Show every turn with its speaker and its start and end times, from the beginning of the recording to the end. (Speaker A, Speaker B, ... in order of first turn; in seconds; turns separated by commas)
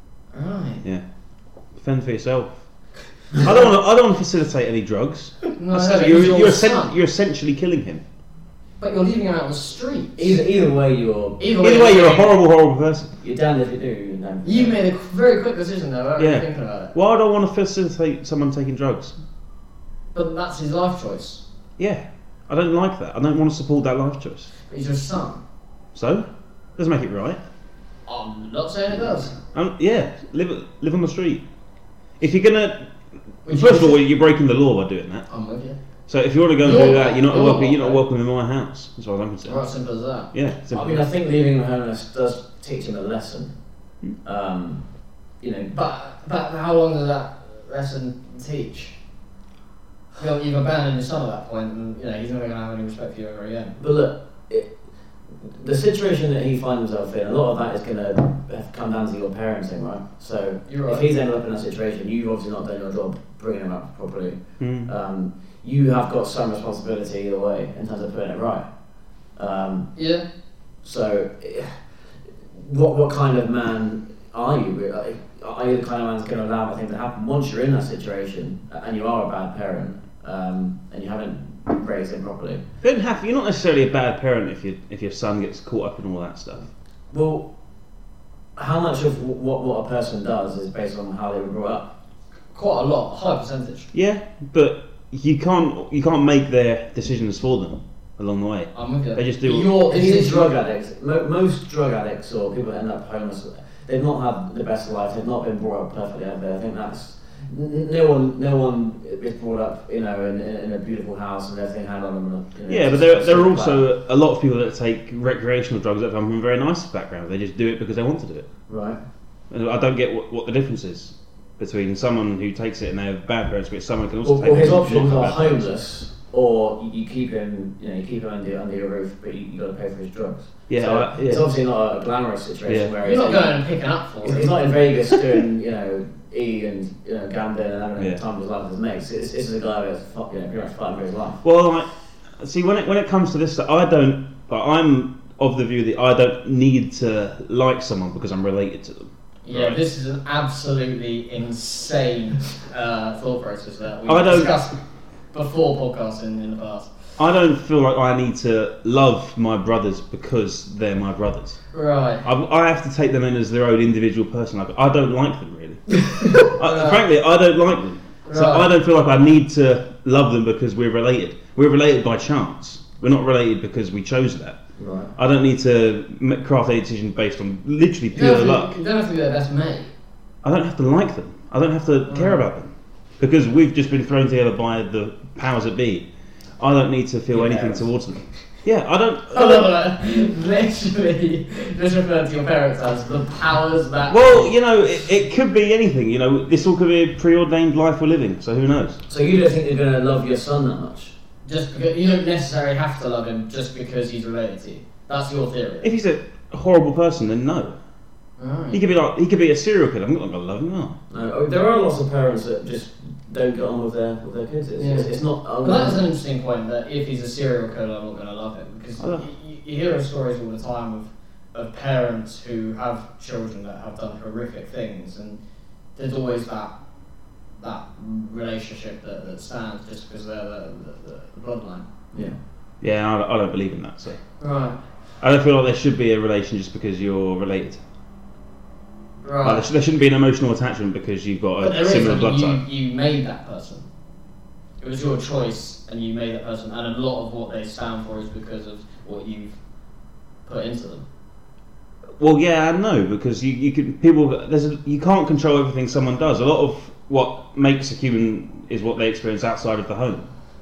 Speaker A: 0.3-0.8, Speaker B: 1.8-2.6, Speaker B: 3.4-8.0, Speaker A: 5.6-6.9, Speaker A: 8.8-10.4, Speaker C: 10.2-11.4, Speaker A: 11.4-12.3, Speaker B: 11.6-13.1, Speaker C: 13.2-14.8, Speaker A: 14.4-16.9, Speaker B: 16.2-19.2, Speaker A: 20.1-21.4, Speaker B: 21.8-24.5, Speaker A: 24.7-25.4, Speaker B: 25.9-27.4, Speaker A: 28.1-29.4, Speaker B: 29.4-31.4, Speaker B: 32.2-32.9, Speaker A: 33.4-34.0, Speaker B: 33.4-35.3, Speaker A: 35.3-35.8, Speaker B: 36.1-39.6, Speaker A: 36.6-38.0, Speaker A: 39.5-40.3, Speaker B: 40.3-41.0, Speaker C: 40.7-43.5, Speaker C: 44.2-44.8, Speaker C: 45.4-45.7, Speaker A: 45.7-49.0, Speaker A: 50.2-53.8, Speaker C: 53.8-54.8, Speaker C: 55.3-68.7, Speaker A: 60.7-61.0, Speaker B: 64.6-64.9, Speaker C: 69.3-69.9, Speaker A: 70.0-70.2, Speaker C: 70.8-82.6, Speaker B: 82.8-86.7, Speaker C: 87.1-87.5, Speaker C: 88.5-91.9, Speaker A: 92.5-93.9, Speaker B: 93.9-99.7, Speaker A: 98.7-100.5, Speaker C: 99.8-113.8, Speaker B: 112.7-118.5, Speaker C: 118.7-119.0, Speaker B: 119.5-125.7, Speaker C: 124.2-141.4, Speaker B: 130.7-131.4, Speaker B: 132.7-132.9, Speaker A: 133.0-134.5, Speaker B: 138.0-138.2, Speaker B: 141.4-149.8, Speaker A: 149.4-154.8, Speaker B: 154.1-154.6, Speaker A: 155.3-156.9, Speaker B: 157.2-161.6, Speaker A: 161.7-162.2, Speaker B: 162.2-174.6, Speaker A: 166.4-167.0, Speaker A: 168.2-168.7, Speaker C: 174.8-175.1, Speaker B: 175.1-178.7, Speaker A: 178.1-179.9, Speaker B: 180.4-189.7, Speaker A: 182.1-182.4, Speaker C: 187.4-187.8, Speaker A: 189.3-194.6, Speaker B: 194.1-199.0, Speaker C: 199.1-201.1, Speaker A: 201.4-205.9, Speaker B: 205.8-207.8, Speaker A: 208.4-208.8, Speaker B: 208.7-211.0, Speaker C: 211.1-216.1, Speaker A: 214.8-225.4, Speaker B: 219.0-219.3, Speaker A: 225.9-226.7, Speaker A: 227.6-231.9, Speaker B: 232.8-234.2, Speaker A: 234.4-234.8, Speaker B: 235.2-237.8, Speaker A: 239.2-239.7, Speaker B: 239.4-242.6, Speaker A: 241.6-243.9, Speaker A: 244.8-249.6, Speaker A: 250.4-251.1, Speaker B: 252.2-260.3